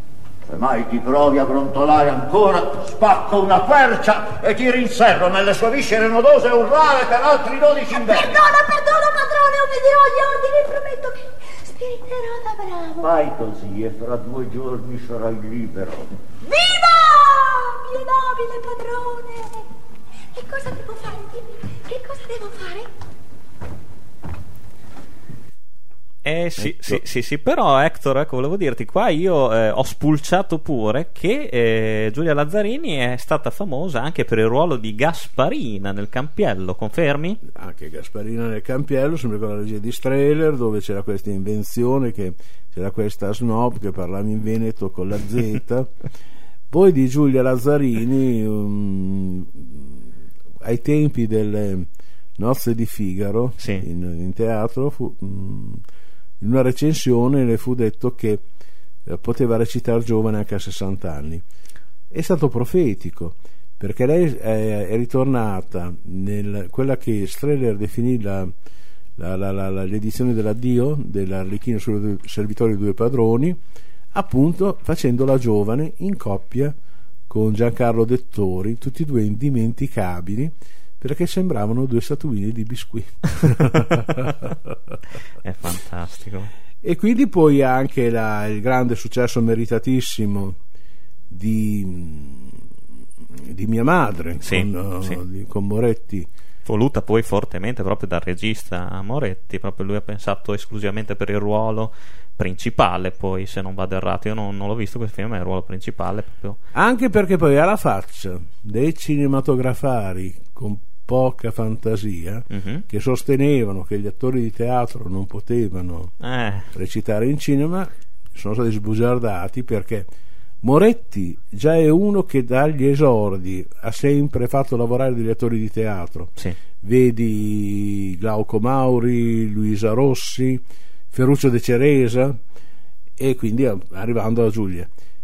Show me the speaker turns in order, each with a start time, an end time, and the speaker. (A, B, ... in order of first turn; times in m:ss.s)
0:00.5-0:08.4 A
0:07.9-0:13.1 B
0:13.0-0:16.1 A
0:16.4-0:19.6 B
0:20.3-0:22.9 B
0:26.2-0:37.4 C
0:26.6-0:27.0 D
0:37.5-0:45.9 D
0:46.7-0:50.0 D
0:50.6-0:51.9 D
0:52.4-0:55.8 D
0:53.6-0:53.8 C
0:56.4-0:58.4 D
0:59.1-1:01.4 D
1:02.1-1:08.5 D
1:09.2-1:13.6 D
1:14.1-1:16.8 D
1:17.3-1:24.5 D
1:25.4-1:26.5 C
1:26.8-1:30.6 D
1:31.3-1:32.6 D
1:33.3-1:36.3 D
1:34.4-1:35.2 C
1:36.6-1:46.6 C
1:46.8-1:56.1 D
1:52.5-1:52.8 C
1:56.2-1:56.7 C
1:56.7-2:00.1 D
2:00.6-2:12.4 D
2:13.2-2:14.9 D